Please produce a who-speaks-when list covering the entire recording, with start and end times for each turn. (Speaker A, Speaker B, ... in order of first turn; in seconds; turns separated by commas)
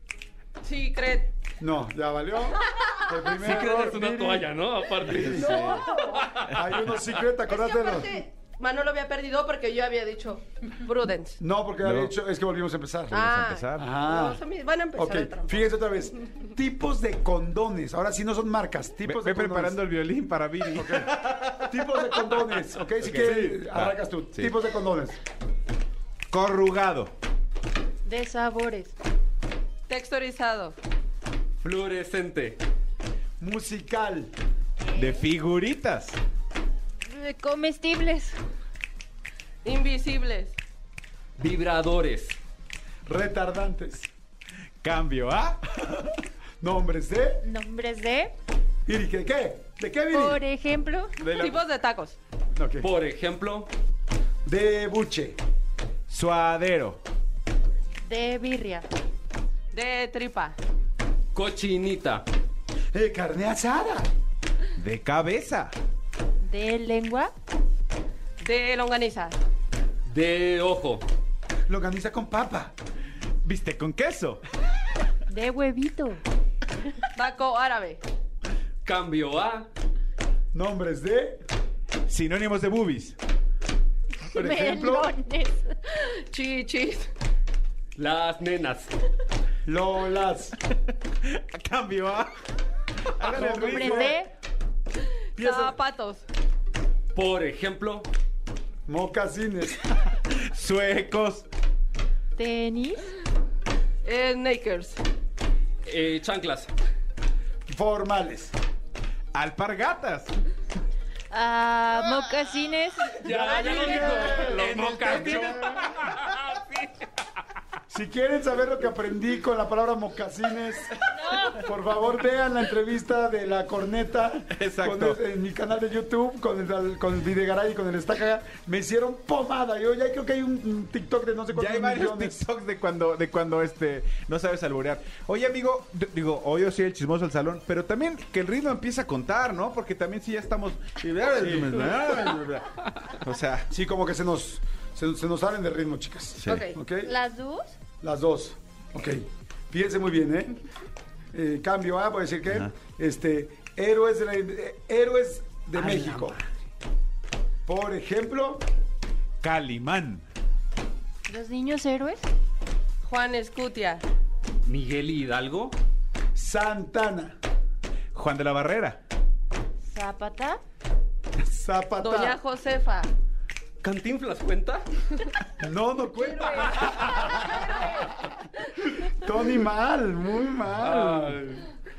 Speaker A: 0.6-1.3, Speaker B: 1.6-4.5, Speaker A: 2.7-3.0, Speaker C: 3.3-6.8, Speaker D: 5.1-5.9, Speaker B: 5.1-5.5, Speaker A: 5.3-6.4, Speaker B: 6.5-8.2, Speaker A: 7.4-11.4, Speaker B: 11.4-13.2, Speaker D: 11.8-12.2, Speaker A: 13.1-16.1, Speaker D: 13.2-13.9, Speaker B: 13.8-14.4, Speaker B: 14.9-19.8, Speaker D: 19.1-21.7, Speaker B: 20.7-25.2, Speaker D: 23.0-24.5, Speaker D: 26.3-27.1, Speaker E: 28.1-28.9, Speaker A: 29.9-30.8, Speaker C: 31.6-32.6, Speaker B: 33.4-34.3, Speaker E: 34.9-35.2, Speaker D: 35.0-36.2, Speaker E: 37.1-38.4, Speaker A: 39.6-40.6, Speaker C: 41.4-42.4, Speaker B: 43.1-44.1, Speaker D: 44.8-46.1, Speaker B: 46.6-47.4, Speaker E: 47.4-48.3, Speaker B: 48.9-50.4, Speaker E: 50.1-51.2, Speaker D: 51.2-51.6, Speaker A: 51.2-52.2, Speaker B: 52.6-52.9, Speaker C: 52.8-53.7, Speaker B: 54.5-55.4, Speaker D: 56.1-57.0, Speaker E: 58.0-58.9, Speaker A: 59.7-60.6, Speaker C: 61.3-62.3, Speaker B: 62.9-64.1, Speaker D: 64.8-65.7, Speaker E: 66.4-67.3, Speaker A: 68.4-69.4, Speaker C: 70.1-71.0, Speaker B: 71.7-72.7, Speaker D: 73.5-74.4, Speaker E: 75.3-76.2, Speaker A: 77.2-78.0, Speaker C: 78.8-79.7, Speaker B: 80.5-81.4, Speaker D: 82.1-83.2, Speaker E: 84.3-85.7, Speaker B: 84.3-85.1, Speaker A: 85.9-87.1, Speaker C: 88.0-88.9, Speaker B: 89.7-90.5, Speaker D: 91.2-92.3, Speaker D: 93.1-93.8, Speaker B: 93.2-94.2, Speaker E: 93.4-94.3, Speaker A: 95.0-96.2, Speaker B: 95.4-95.8, Speaker C: 97.1-98.1, Speaker B: 98.9-99.8, Speaker D: 100.2-101.5, Speaker E: 102.3-103.1, Speaker A: 104.0-105.0, Speaker C: 105.8-106.7, Speaker B: 107.7-108.5, Speaker D: 109.3-110.3, Speaker E: 111.3-113.1, Speaker C: 113.2-117.1, Speaker B: 113.3-115.9, Speaker B: 117.9-120.9, Speaker E: 121.1-121.6, Speaker B: 121.5-132.4, Speaker D: 124.5-125.2, Speaker D: 131.5-143.7, Speaker B: 141.4-141.8, Speaker B: 143.7-147.1, Speaker A: 146.5-146.8, Speaker E: 147.0-147.7, Speaker B: 148.0-150.5, Speaker B: 151.3-156.4, Speaker B: 157.7-158.6, Speaker D: 159.4-160.2, Speaker E: 161.3-162.2, Speaker A: 163.0-164.0, Speaker C: 164.7-165.8, Speaker B: 166.3-167.4, Speaker D: 168.1-169.0, Speaker E: 169.8-170.6, Speaker B: 171.4-172.4, Speaker A: 172.0-173.1, Speaker C: 173.8-175.2, Speaker B: 175.6-177.7, Speaker A: 176.3-177.9, Speaker C: 176.9-177.2, Speaker B: 179.0-181.4, Speaker C: 180.8-181.7